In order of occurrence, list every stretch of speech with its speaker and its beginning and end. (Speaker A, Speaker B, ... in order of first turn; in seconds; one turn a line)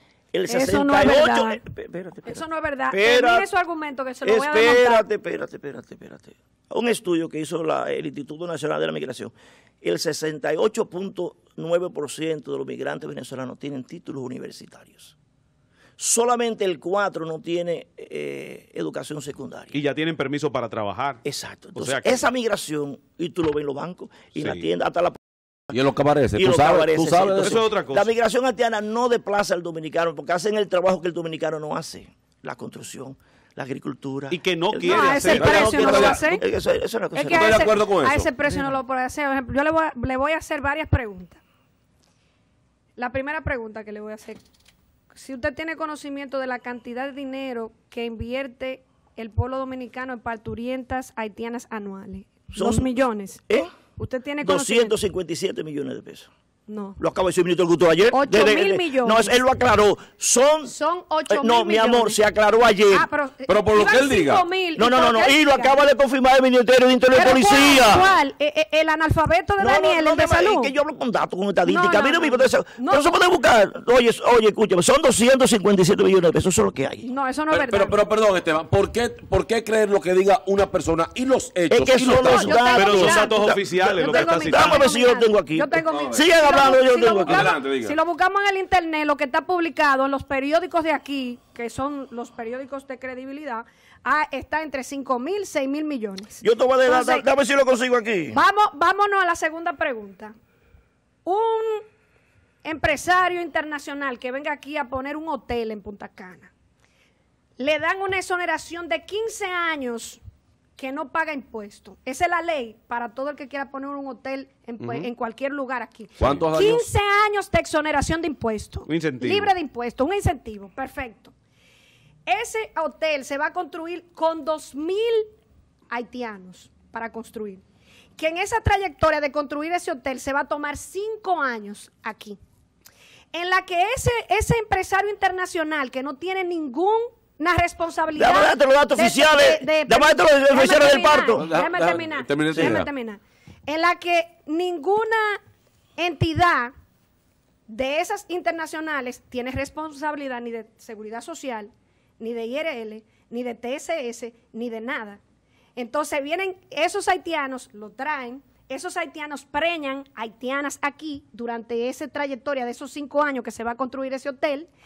Speaker A: 0.3-3.5
Speaker B: 0.5-1.6
Speaker B: 2.3-5.1
Speaker A: 4.2-15.2
Speaker A: 16.0-19.8
Speaker C: 19.7-21.2
Speaker A: 21.2-25.2
Speaker C: 21.8-22.2
Speaker C: 24.4-24.6
Speaker D: 25.7-27.6
Speaker A: 26.4-37.8
Speaker C: 27.4-28.1
Speaker C: 34.3-35.8
Speaker B: 34.8-36.4
Speaker D: 35.4-36.2
Speaker B: 37.1-41.4
Speaker D: 37.3-38.3
Speaker A: 38.4-38.7
Speaker B: 43.0-44.4
Speaker B: 45.1-53.4
Speaker A: 52.5-52.9
Speaker B: 54.0-54.9
Speaker A: 54.4-56.3
Speaker B: 56.7-57.0
Speaker A: 57.0-60.7
Speaker B: 58.1-59.4
Speaker B: 60.7-62.2
Speaker A: 61.3-63.1
Speaker B: 62.9-65.8
Speaker D: 63.5-64.5
Speaker A: 64.8-68.1
Speaker B: 67.1-70.7
Speaker A: 69.6-77.1
Speaker B: 71.7-73.2
Speaker B: 77.1-78.0
Speaker D: 77.5-83.0
Speaker A: 81.7-87.5
Speaker B: 82.1-97.3
Speaker C: 82.8-84.9
Speaker D: 85.9-86.2
Speaker D: 87.2-88.0
Speaker A: 96.4-98.4
Speaker B: 98.3-100.3
Speaker B: 101.2-101.8
Speaker B: 102.7-106.5
Speaker B: 107.6-110.2
Speaker B: 110.8-121.3
Speaker C: 114.8-115.1
Speaker D: 116.2-116.9
Speaker C: 118.9-119.5
Speaker B: 122.3-125.3
Speaker B: 125.9-127.6
Speaker B: 128.2-132.4
Speaker B: 133.3-145.4
Speaker A: 138.2-141.5
Speaker D: 141.4-142.9
Speaker A: 142.5-142.8
Speaker B: 146.0-146.7
Speaker B: 147.7-155.2
Speaker B: 155.8-164.7